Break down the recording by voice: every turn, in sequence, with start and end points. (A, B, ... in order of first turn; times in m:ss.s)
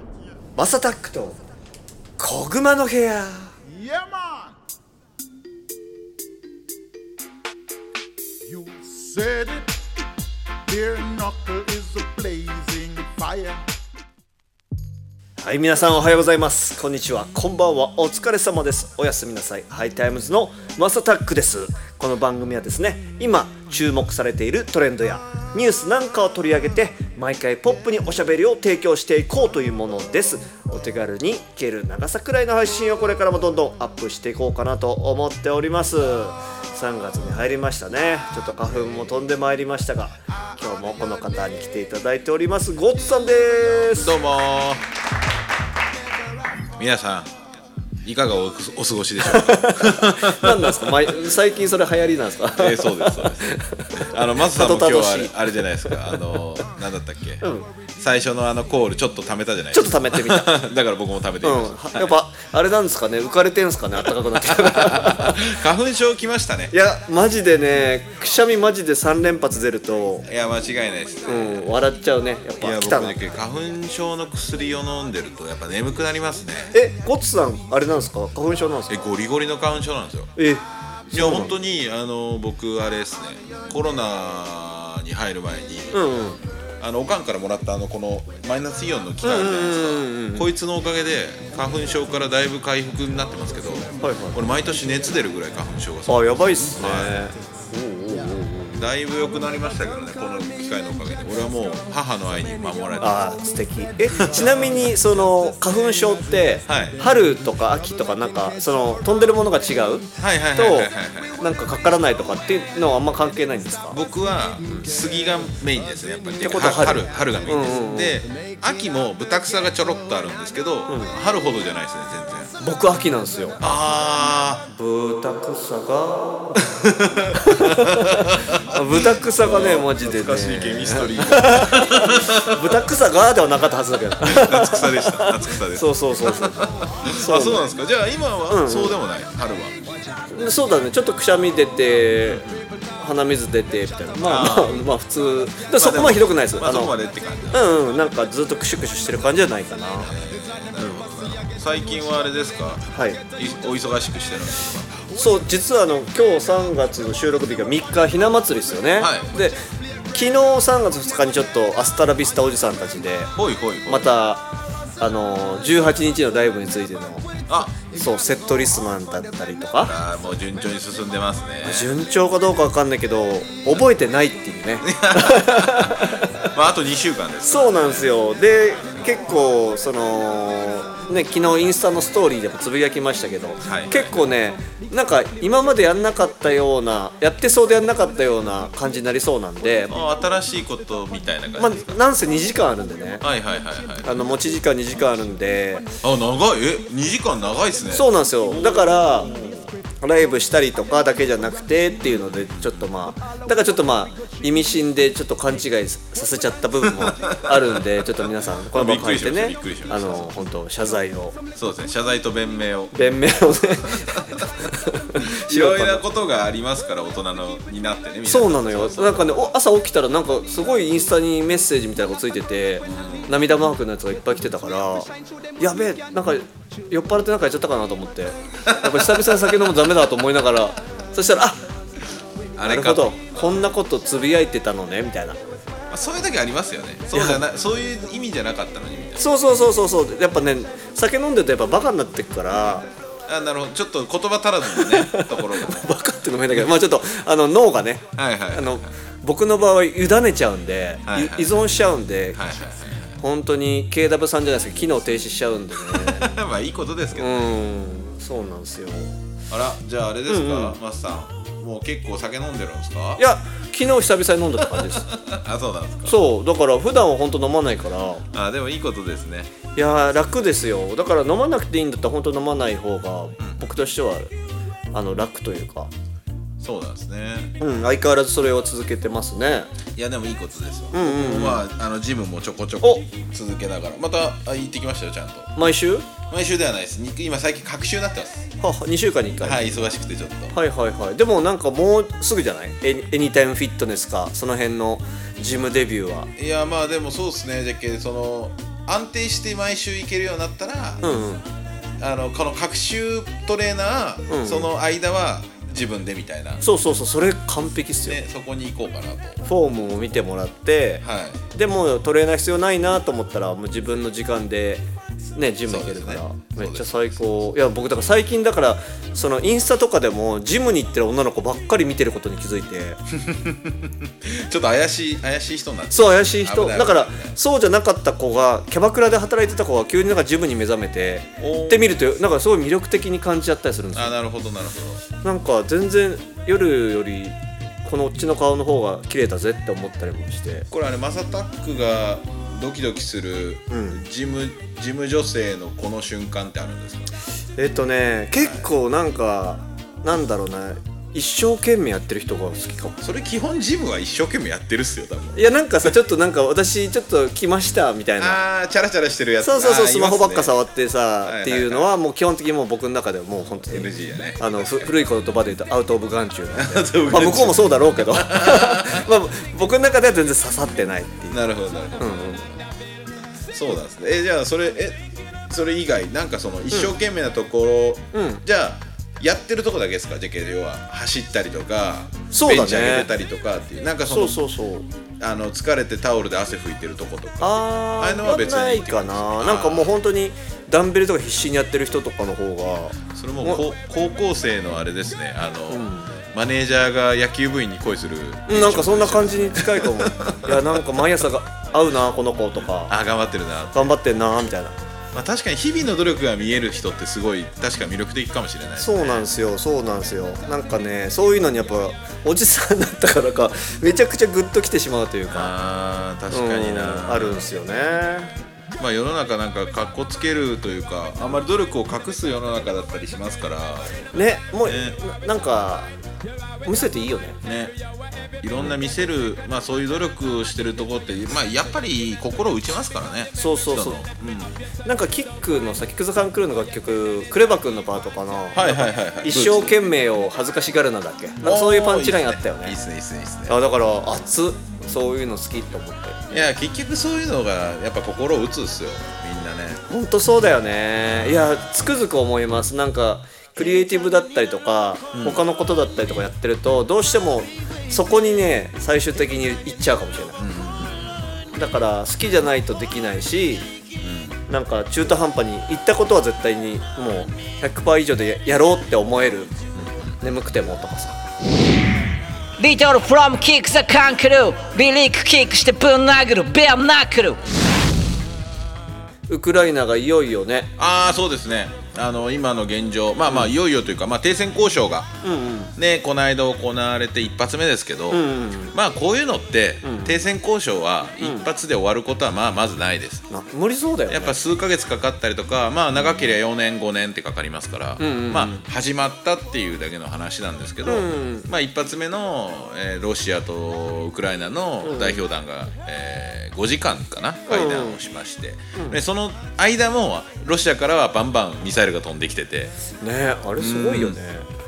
0:00.6-0:01.4 A
0:02.2-0:03.5 A
0:03.9-0:04.5 B
0:08.6-0:09.5 B
0:10.7-0:13.6 B
0:15.4-0:44.2 A
0:44.0-0:44.8 C
0:46.8-0:47.3 C
0:48.0-0:51.1 C
0:49.2-0:55.4 A
0:52.5-0:57.4 C
0:55.9-0:56.2 A
0:57.4-0:57.7 A
0:58.0-1:02.2 C
0:59.7-1:00.5 A
1:01.4-1:05.5 A
1:04.4-1:06.7 C
1:06.7-1:10.2 A
1:10.3-1:11.6 C
1:11.2-1:13.2 A
1:12.6-1:16.7 C
1:16.7-1:19.1 A
1:18.9-1:20.3 C
1:20.4-1:21.5 A
1:21.1-1:26.0 C
1:25.9-1:26.4 A
1:26.8-1:37.1 C
1:29.2-1:30.5 A
1:34.0-1:34.4 A
1:36.0-1:38.8 A
1:38.8-1:43.2 C
1:43.0-1:54.0 A
1:44.1-1:44.8 C
1:46.7-1:47.0 C
1:50.2-1:51.4 C
1:53.9-2:02.5 C
1:56.4-1:58.2 A
2:00.9-2:01.1 A
2:02.6-2:03.6 A
2:03.6-2:04.7 C
2:04.7-2:06.6 A
2:06.8-2:12.9 C
2:07.3-2:17.6 A
2:14.2-2:19.8 C
2:18.5-2:19.0 A
2:20.3-2:26.9 A
2:22.2-2:22.7 C
2:24.2-2:24.9 C
2:25.7-2:27.6 C
2:27.5-2:30.1 A
2:30.0-2:35.0 C
2:32.9-2:33.2 A
2:35.1-2:39.6 A
2:39.0-2:39.4 C
2:40.1-2:43.3 A
2:43.4-2:44.1 C
2:43.8-2:47.2 A
2:47.5-2:47.8 C
2:47.8-2:49.9 A
2:49.8-2:51.9 C
2:51.6-2:56.3 A
2:54.8-2:58.2 C
2:57.4-3:10.0 A
3:03.6-3:04.2 C
3:09.9-3:12.0 C
3:11.6-3:13.2 A
3:13.2-3:14.2 C
3:14.0-3:15.9 A
3:16.0-3:19.7 C
3:17.9-3:19.3 A
3:20.0-3:31.4 A
3:22.0-3:22.9 C
3:26.9-3:28.0 C
3:28.7-3:30.3 C
3:31.6-3:33.0 C
3:32.9-3:36.0 A
3:33.6-3:34.3 C
3:35.1-3:39.4 C
3:38.2-3:51.6 A
3:42.8-3:43.3 C
3:48.7-3:49.5 C
3:52.6-3:53.5 C
3:52.6-3:55.4 A
3:55.9-3:59.3 C
3:57.1-3:57.4 A
3:59.2-4:02.9 A
4:03.3-4:05.9 C
4:04.6-4:12.4 A
4:08.2-4:08.9 C
4:11.0-4:11.5 C
4:12.3-4:13.2 C
4:13.2-4:16.4 A
4:15.8-4:17.6 C
4:17.2-4:19.1 A
4:19.5-4:23.2 C
4:20.3-4:20.8 A
4:23.2-4:25.1 A
4:24.7-4:26.2 C
4:26.0-4:28.2 A
4:28.3-4:29.5 C
4:29.7-4:34.3 A
4:33.4-4:33.6 C
4:34.9-4:35.9 A
4:36.6-4:37.5 C
4:37.6-4:39.7 A
4:39.9-4:45.5 C
4:40.9-4:41.6 A
4:45.5-4:46.1 A
4:46.3-4:48.4 C
4:48.6-4:49.8 A
4:49.4-4:50.5 C
4:50.5-4:56.3 A
4:56.4-5:01.1 C
5:01.0-5:01.4 A
5:02.0-5:06.6 C
5:04.3-5:04.7 A
5:06.6-5:08.2 A
5:08.0-5:09.4 C
5:09.4-5:23.0 A
5:11.0-5:11.4 C
5:15.7-5:16.9 C
5:23.2-5:27.3 C
5:25.9-5:34.1 A
5:31.4-5:32.0 C
5:33.9-5:35.0 C
5:35.2-5:40.7 A
5:40.7-5:47.1 C
5:43.7-5:44.0 A
5:47.6-5:53.0 A
5:48.4-5:48.7 C
5:53.0-5:55.9 C
5:55.3-5:58.4 A
5:58.2-6:00.5 C
5:59.4-6:11.4 A
6:01.2-6:01.9 C
6:03.6-6:04.9 C
6:06.5-6:09.1 C
6:11.3-6:12.6 C
6:12.0-6:12.4 A
6:13.5-6:24.4 C
6:18.1-6:18.4 A
6:22.3-6:23.1 A
6:24.1-6:24.9 A
6:25.2-6:29.9 C
6:27.4-6:33.6 A
6:33.1-6:41.0 C
6:35.7-6:36.2 A
6:38.5-6:42.9 A
6:42.9-6:44.0 C
6:43.7-6:44.8 A
6:45.1-6:49.2 C
6:48.8-6:55.5 A
6:55.3-6:57.5 C
6:56.3-6:58.3 A
6:58.8-7:04.1 C
7:04.1-7:05.9 A
7:04.6-7:05.0 C
7:06.6-7:07.4 A
7:07.4-7:07.8 C
7:08.4-7:14.6 C
7:13.3-7:14.0 A
7:14.8-7:22.8 A
7:18.5-7:19.8 C
7:21.4-7:23.6 C
7:23.5-7:26.4 A
7:26.3-7:29.8 C
7:29.9-7:40.4 A
7:31.1-7:31.6 C
7:35.1-7:35.4 C
7:40.4-7:41.4 C
7:41.5-7:43.7 A
7:44.0-7:44.4 C
7:44.5-7:49.5 A
7:49.7-7:50.2 C
7:50.2-7:51.2 A
7:52.6-7:57.4 D
7:59.3-8:00.7 A
8:00.8-8:05.1 C
8:03.3-8:03.5 A
8:05.2-8:05.7 A
8:05.8-8:13.2 C
8:08.1-8:08.7 A
8:09.8-8:10.2 A
8:11.2-8:11.5 A
8:13.3-8:14.4 A
8:14.1-8:32.7 C
8:18.0-8:18.6 A
8:20.8-8:21.5 A
8:24.8-8:25.3 A
8:27.5-8:28.0 A
8:28.7-8:29.0 A
8:33.0-8:34.5 A
8:33.6-8:34.2 C